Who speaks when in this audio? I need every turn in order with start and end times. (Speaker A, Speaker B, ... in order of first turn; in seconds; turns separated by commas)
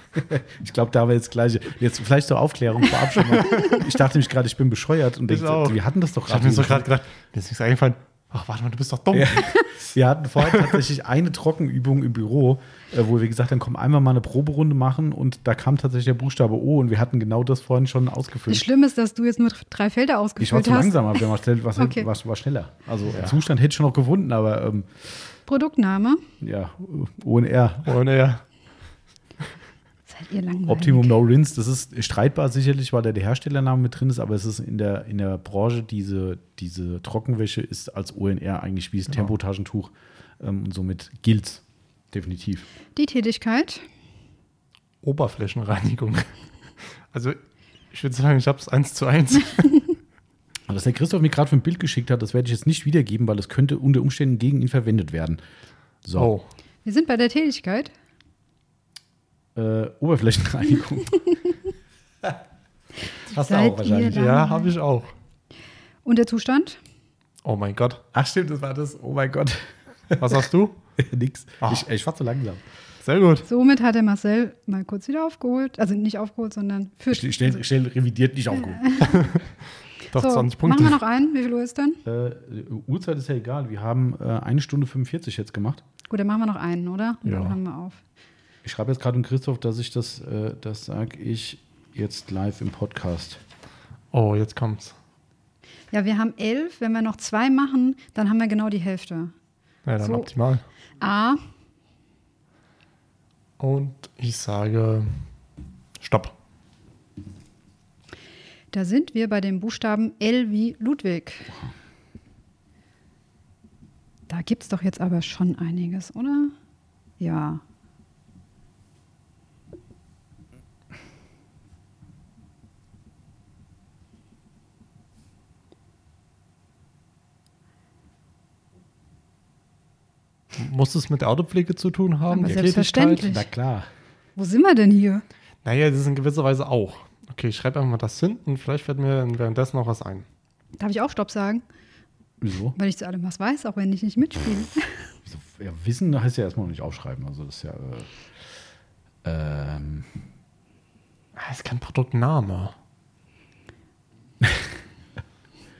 Speaker A: 0.1-6.9, Speaker B: 3.3-3.6, Speaker B: 5.3-9.6, Speaker A: 9.1-18.6, Speaker B: 10.4-10.8, Speaker C: 18.5-21.2, Speaker A: 20.4-25.1, Speaker C: 21.8-22.1, Speaker B: 23.1-23.4, Speaker C: 25.5-26.2, Speaker A: 26.4-27.9, Speaker B: 27.9-28.4, Speaker C: 30.1-31.1, Speaker A: 30.7-42.7, Speaker C: 42.9-43.8, Speaker B: 45.0-47.4, Speaker B: 47.9-49.8, Speaker A: 50.7-55.4, Speaker A: 56.0-56.3, Speaker B: 56.1-56.5, Speaker C: 56.8-57.9, Speaker A: 59.5-61.3, Speaker A: 63.3-64.2, Speaker C: 63.3-64.7, Speaker B: 64.1-65.1, Speaker C: 66.0-66.8, Speaker B: 67.4-68.0, Speaker A: 68.1-70.3, Speaker B: 70.2-70.8, Speaker A: 71.0-72.6, Speaker B: 73.0-73.5, Speaker C: 73.5-77.6, Speaker A: 77.1-79.1, Speaker C: 78.5-79.2, Speaker B: 79.0-79.5, Speaker B: 80.1-81.0, Speaker C: 80.1-82.0, Speaker A: 82.0-85.8, Speaker C: 86.1-88.0, Speaker B: 87.2-87.6, Speaker A: 88.6-93.4, Speaker B: 94.1-95.0, Speaker C: 95.9-99.3, Speaker B: 99.8-100.6, Speaker C: 100.0-100.3, Speaker C: 101.0-101.4, Speaker B: 103.6-105.1, Speaker B: 106.0-106.3, Speaker C: 108.7-111.5, Speaker C: 114.3-116.5, Speaker C: 117.2-117.6, Speaker B: 130.5-133.2, Speaker C: 132.3-133.5, Speaker A: 133.2-133.9, Speaker C: 134.3-135.2, Speaker B: 135.6-140.2, Speaker C: 140.8-141.6, Speaker A: 142.4-142.8, Speaker C: 142.8-145.0, Speaker A: 145.2-148.1, Speaker A: 149.2-150.1, Speaker B: 151.3-152.7